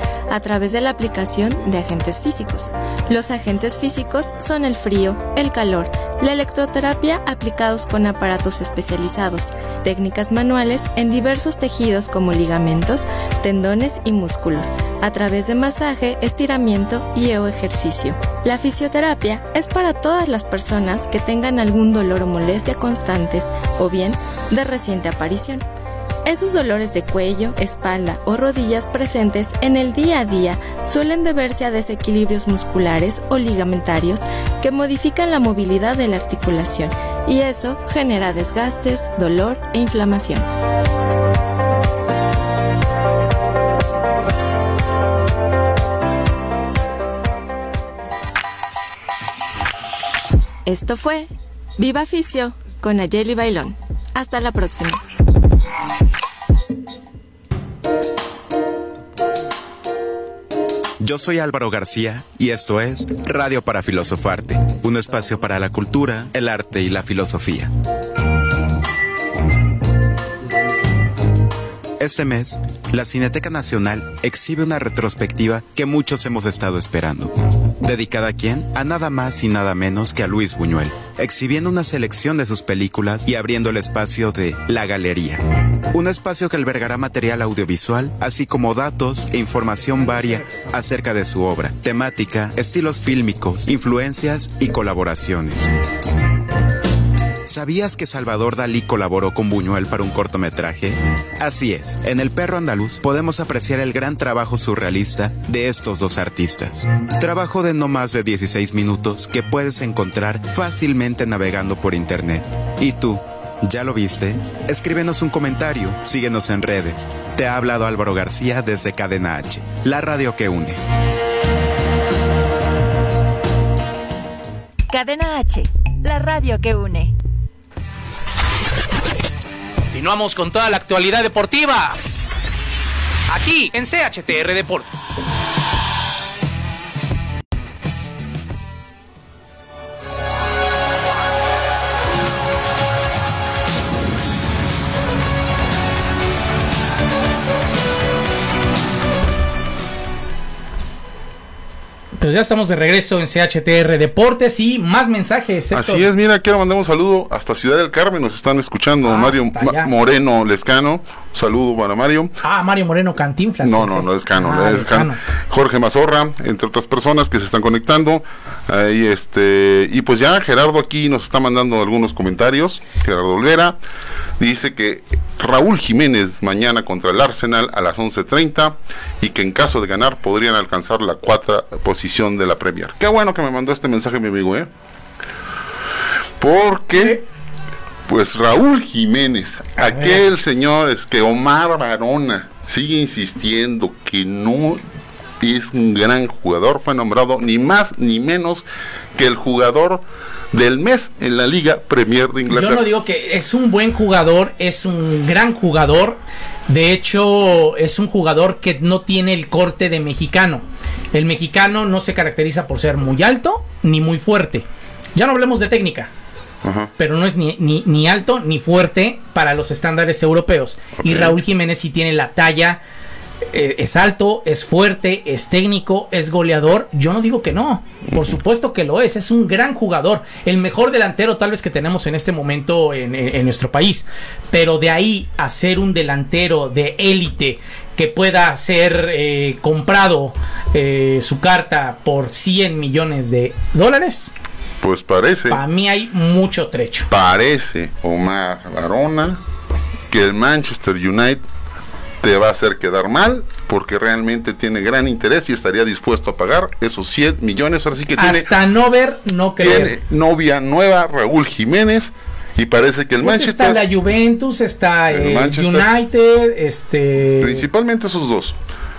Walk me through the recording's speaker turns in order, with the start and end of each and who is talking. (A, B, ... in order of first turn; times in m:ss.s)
0:00.3-0:25.6 A
0:26.2-0:40.5 A
0:50.7-0:55.0 A
1:01.0-1:07.7 B
1:12.0-1:25.4 B
1:25.9-1:35.7 B
1:37.4-2:00.8 B
2:04.9-2:07.1 C
2:09.9-2:12.0 D
2:13.3-2:14.9 D
2:32.2-2:36.1 D
2:35.7-2:42.4 E
2:39.0-2:39.9 D
2:42.4-2:45.2 D
2:43.6-2:53.8 E
2:54.4-3:04.7 E
3:06.4-3:07.2 E
3:07.0-3:07.2 D
3:08.1-3:14.8 E
3:09.8-3:10.2 D
3:15.4-3:22.9 E
3:22.5-3:36.1 D
3:36.6-3:36.9 E
3:37.0-3:42.8 D
3:41.0-3:41.4 E
3:43.5-4:04.3 D
4:04.8-4:05.6 E
4:05.5-4:07.1 D
4:07.1-4:09.4 E
4:10.1-4:11.4 E
4:12.2-4:18.5 E
4:18.2-4:20.0 D
4:19.6-4:23.8 E
4:23.2-4:27.6 D
4:25.1-4:25.9 E
4:27.4-4:28.6 E